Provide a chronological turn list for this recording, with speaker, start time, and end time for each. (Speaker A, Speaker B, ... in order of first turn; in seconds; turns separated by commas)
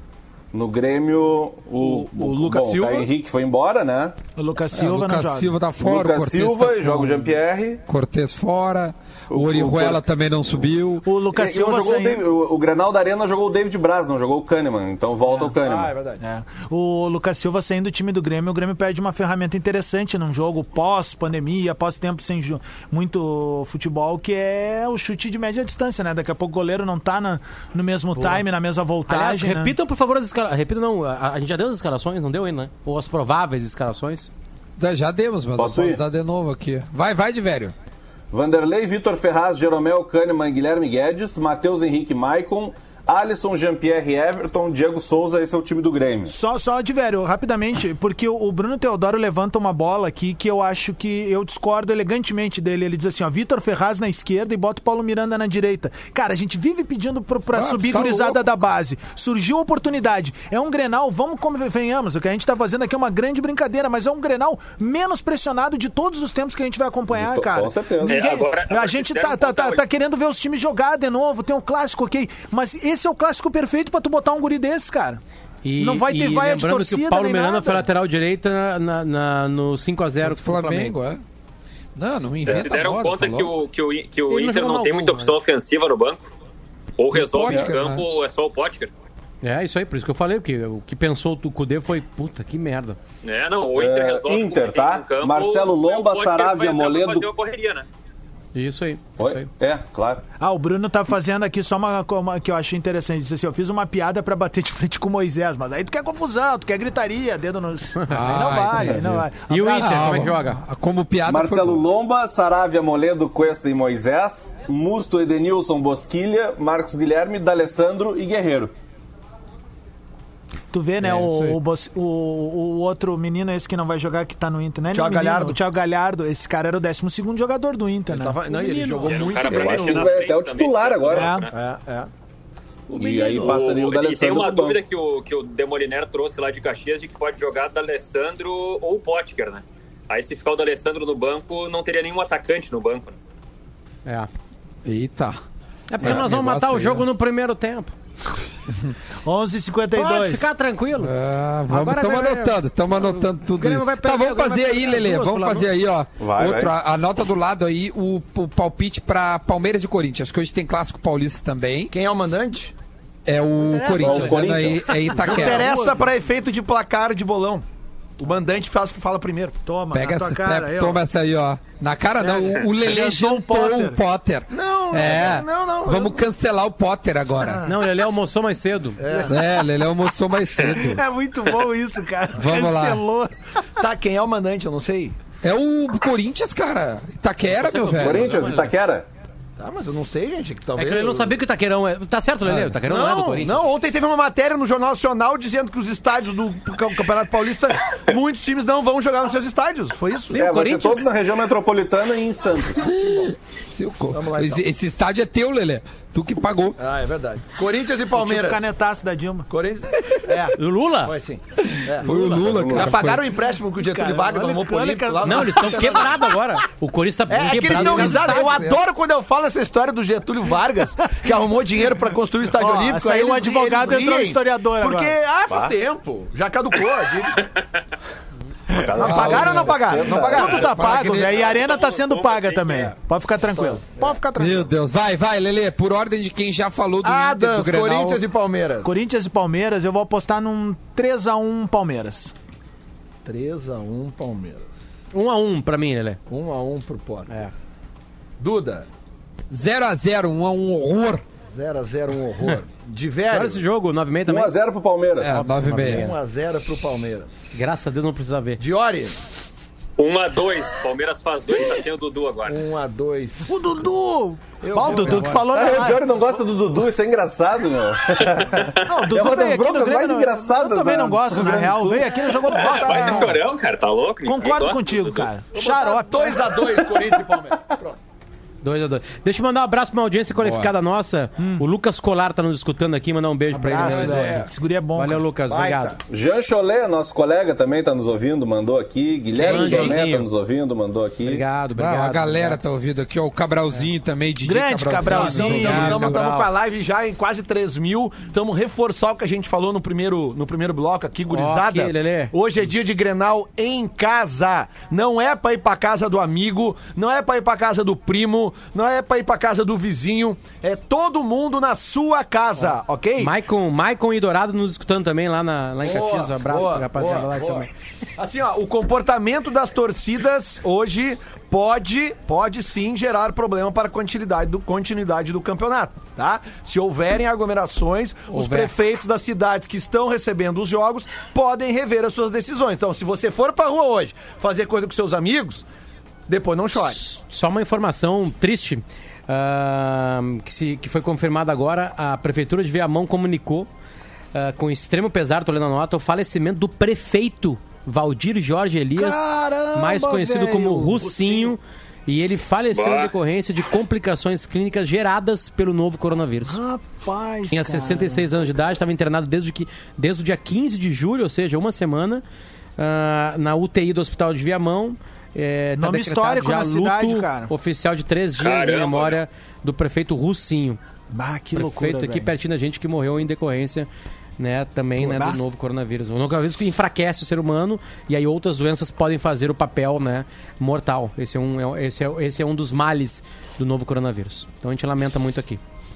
Speaker A: 0.5-4.2, Speaker B: 1.8-3.1, Speaker C: 4.3-5.6, Speaker D: 4.7-7.3, Speaker A: 5.8-7.8, Speaker D: 7.9-11.1, Speaker A: 9.3-10.0, Speaker C: 11.0-12.2, Speaker A: 11.3-15.9, Speaker B: 15.6-16.2, Speaker C: 16.2-29.7, Speaker E: 28.2-28.4, Speaker E: 29.1-34.3, Speaker D: 34.8-37.7, Speaker A: 35.5-36.0, Speaker A: 38.3-46.3, Speaker C: 46.3-75.2, Speaker D: 57.5-58.6, Speaker A: 67.1-68.2, Speaker F: 68.1-69.8, Speaker E: 75.6-80.9, Speaker C: 75.8-77.8, Speaker D: 80.2-81.2, Speaker D: 82.0-83.5, Speaker F: 82.4-86.3, Speaker E: 84.3-85.3, Speaker F: 87.0-88.9, Speaker D: 87.1-88.0, Speaker E: 89.4-93.0, Speaker F: 93.2-97.8, Speaker A: 93.7-97.3, Speaker E: 98.5-99.5, Speaker A: 99.2-100.2, Speaker C: 100.4-110.2, Speaker E: 108.0-108.3, Speaker D: 108.1-111.8, Speaker E: 109.5-110.6, Speaker A: 111.2-118.7, Speaker C: 120.7-128.4, Speaker D: 121.0-121.6, Speaker B: 124.9-125.6, Speaker B: 128.1-130.1, Speaker E: 128.5-129.2, Speaker F: 129.0-131.5, Speaker A: 129.4-131.4, Speaker C: 131.1-131.5, Speaker B: 131.5-132.1, Speaker B: 132.9-133.6, Speaker A: 132.9-134.8, Speaker F: 133.3-143.2, Speaker E: 144.0-144.3, Speaker D: 144.8-145.4, Speaker E: 145.9-147.9, Speaker D: 146.0-147.1, Speaker C: 149.2-150.5, Speaker E: 149.9-151.1, Speaker D: 150.9-161.9, Speaker E: 151.7-155.8, Speaker A: 156.2-156.7, Speaker B: 161.9-162.7, Speaker D: 163.2-165.7, Speaker C: 163.8-164.0, Speaker A: 163.9-165.3, Speaker E: 164.0-164.3, Speaker B: 165.1-167.6, Speaker C: 165.5-165.8, Speaker B: 168.2-169.6, Speaker C: 169.7-171.0, Speaker D: 169.9-177.6, Speaker C: 172.3-174.0, Speaker B: 174.5-176.2, Speaker E: 177.6-179.4, Speaker B: 179.0-179.4, Speaker D: 179.3-181.0, Speaker C: 180.6-183.3, Speaker D: 182.3-183.0, Speaker B: 183.8-185.2, Speaker D: 185.4-188.6, Speaker B: 187.6-188.6, Speaker E: 187.7-188.0, Speaker A: 188.0-189.1, Speaker B: 189.6-191.4, Speaker E: 190.8-193.6, Speaker D: 192.4-192.8, Speaker B: 192.8-200.5, Speaker E: 200.3-201.1, Speaker A: 200.3-202.9, Speaker D: 202.8-206.8, Speaker B: 204.1-204.7, Speaker B: 206.8-208.7, Speaker C: 208.2-209.5, Speaker B: 209.5-216.3, Speaker E: 210.6-211.2, Speaker D: 211.6-213.3, Speaker A: 212.1-213.0, Speaker C: 213.8-215.8, Speaker E: 215.2-218.7, Speaker B: 217.3-227.4, Speaker D: 217.7-218.7, Speaker C: 222.5-225.1, Speaker A: 228.7-230.7, Speaker B: 228.8-230.7, Speaker D: 229.0-231.6, Speaker C: 230.3-234.7, Speaker F: 230.7-232.9, Speaker B: 233.5-234.1, Speaker D: 234.3-238.2, Speaker B: 237.0-239.0, Speaker C: 238.8-242.3, Speaker B: 243.2-244.7, Speaker E: 245.1-246.2, Speaker B: 246.3-247.4, Speaker B: 248.4-248.9, Speaker D: 249.5-251.2, Speaker B: 251.5-253.6, Speaker E: 253.3-254.5, Speaker A: 254.2-255.4, Speaker D: 255.2-256.1, Speaker E: 255.3-256.1, Speaker B: 255.8-257.3, Speaker E: 257.5-258.6, Speaker B: 258.6-259.2, Speaker F: 260.0-262.6, Speaker B: 262.4-263.8, Speaker C: 263.4-266.0, Speaker B: 264.6-265.4, Speaker E: 264.8-265.4, Speaker A: 265.5-273.1, Speaker F: 268.4-268.9, Speaker C: 268.8-273.4, Speaker F: 272.5-275.3, Speaker C: 274.2-276.8, Speaker B: 275.5-278.0, Speaker E: 278.6-286.0, Speaker D: 280.3-280.7, Speaker C: 281.4-281.6, Speaker C: 283.5-285.2, Speaker B: 283.7-284.5, Speaker B: 285.5-286.0, Speaker A: 286.1-291.4, Speaker E: 289.3-290.3, Speaker B: 289.5-289.9, Speaker E: 291.2-292.6, Speaker D: 291.7-296.2, Speaker C: 294.4-296.1, Speaker B: 295.1-313.4, Speaker E: 295.2-296.5, Speaker E: 301.3-302.3, Speaker E: 313.2-317.7, Speaker B: 315.8-335.6, Speaker E: 328.3-328.7, Speaker B: 336.3-337.0, Speaker E: 336.8-343.7, Speaker E: 344.3-356.6, Speaker C: 348.9-351.4, Speaker B: 351.0-351.5, Speaker F: 352.7-353.1, Speaker C: 356.4-358.2, Speaker E: 357.5-362.2, Speaker E: 362.8-370.8, Speaker C: 365.8-367.5, Speaker F: 368.4-369.2, Speaker C: 371.1-372.3, Speaker E: 371.5-385.6, Speaker C: 375.0-375.4